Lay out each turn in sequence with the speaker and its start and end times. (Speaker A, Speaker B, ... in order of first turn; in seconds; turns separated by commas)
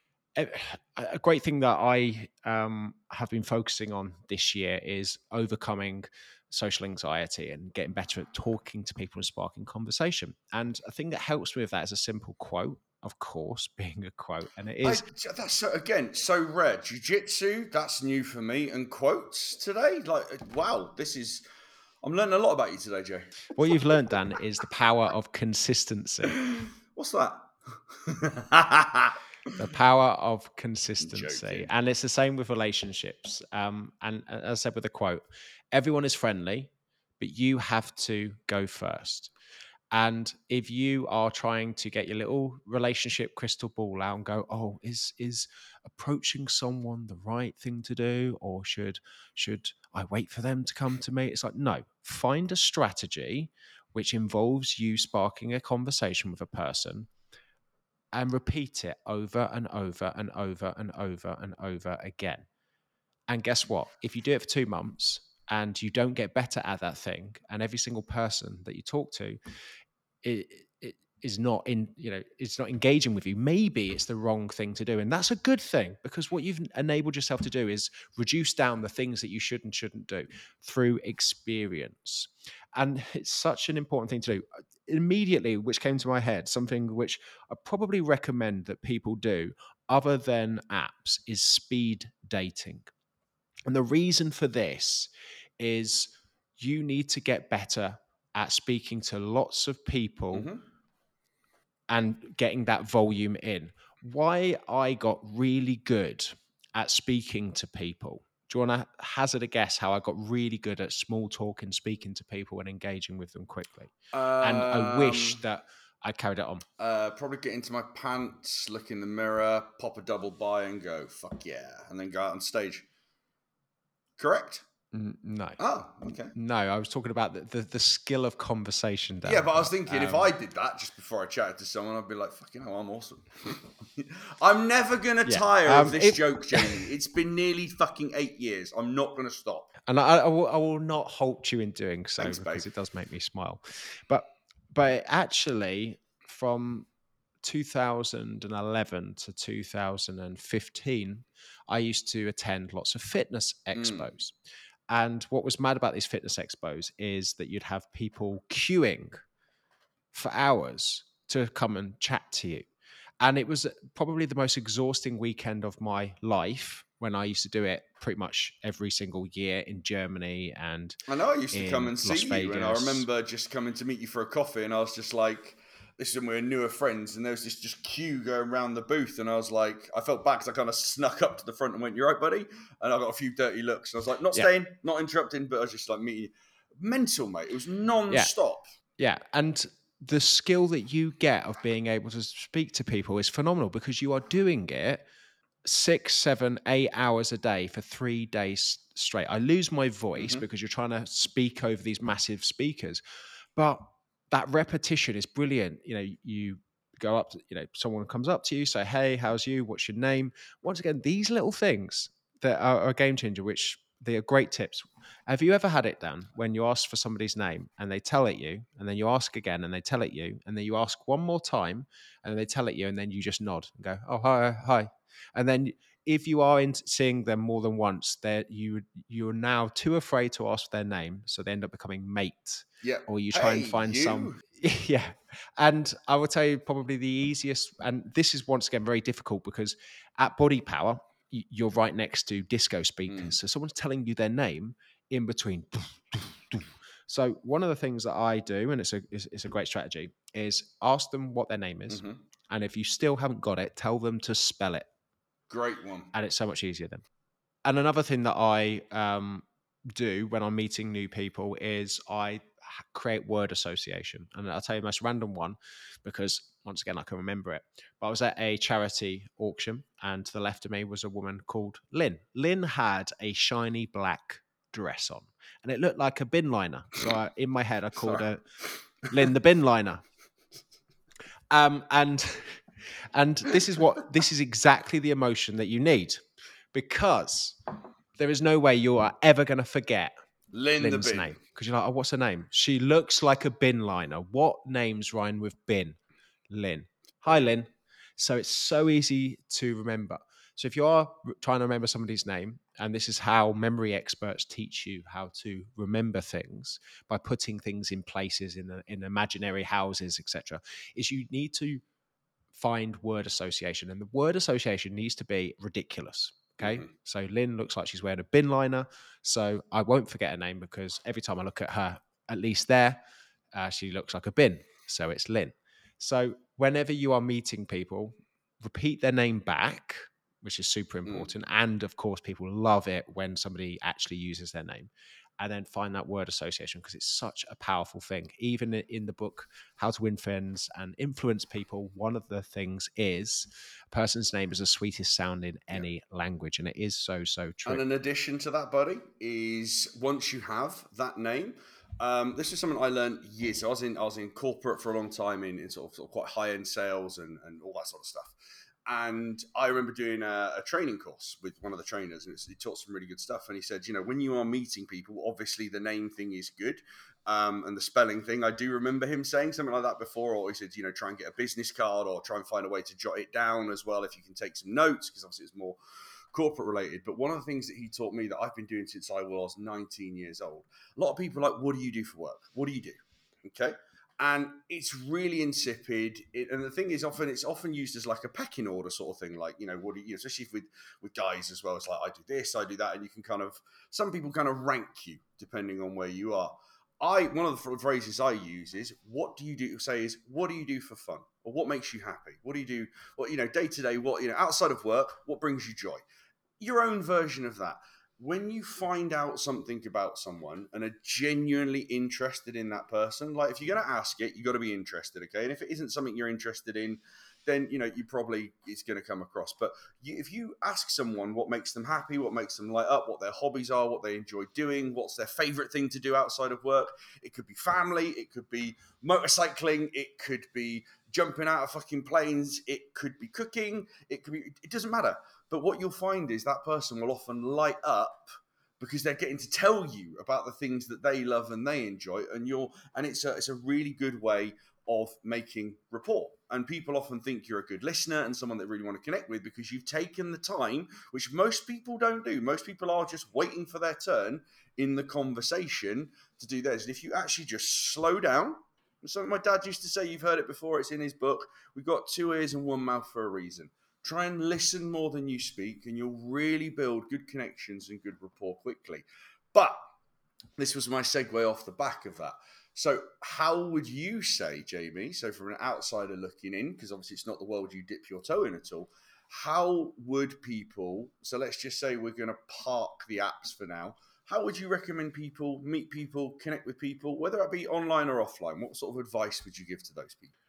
Speaker A: 0.4-15.0, Speaker B: 14.8-21.4, Speaker B: 22.0-23.5, Speaker A: 23.5-26.4, Speaker B: 26.4-29.2, Speaker A: 29.6-39.3, Speaker B: 31.0-31.7, Speaker A: 39.9-57.1, Speaker A: 58.1-62.5, Speaker A: 63.3-69.4, Speaker A: 70.2-92.9, Speaker A: 93.7-100.5, Speaker B: 100.3-100.6, Speaker A: 101.9-116.6, Speaker B: 114.1-115.4, Speaker B: 116.8-122.9, Speaker B: 124.2-124.6, Speaker A: 124.9-125.6, Speaker B: 125.6-126.3, Speaker A: 126.3-130.3, Speaker B: 129.2-139.7, Speaker A: 135.3-136.8, Speaker A: 139.9-146.9, Speaker B: 142.2-142.7, Speaker A: 147.4-154.3, Speaker B: 153.8-154.1, Speaker A: 154.9-159.2, Speaker A: 160.1-162.7, Speaker A: 163.2-171.0, Speaker B: 171.1-188.6, Speaker A: 171.5-173.1, Speaker A: 189.0-195.1, Speaker A: 195.6-203.0, Speaker B: 200.2-200.4, Speaker A: 203.6-254.9, Speaker B: 232.8-234.4, Speaker B: 243.1-243.3, Speaker B: 251.9-252.2, Speaker B: 255.5-256.1, Speaker A: 256.1-257.0, Speaker A: 257.6-278.4, Speaker A: 279.0-280.0, Speaker A: 281.5-282.6, Speaker A: 283.1-287.6, Speaker A: 288.2-290.1, Speaker B: 290.5-291.4, Speaker A: 290.8-296.0, Speaker A: 296.5-311.8, Speaker A: 312.5-323.0, Speaker B: 316.6-316.9, Speaker A: 323.5-347.8, Speaker B: 347.6-358.4, Speaker B: 358.9-375.8, Speaker B: 376.3-406.1, Speaker B: 406.6-469.8, Speaker B: 470.6-490.3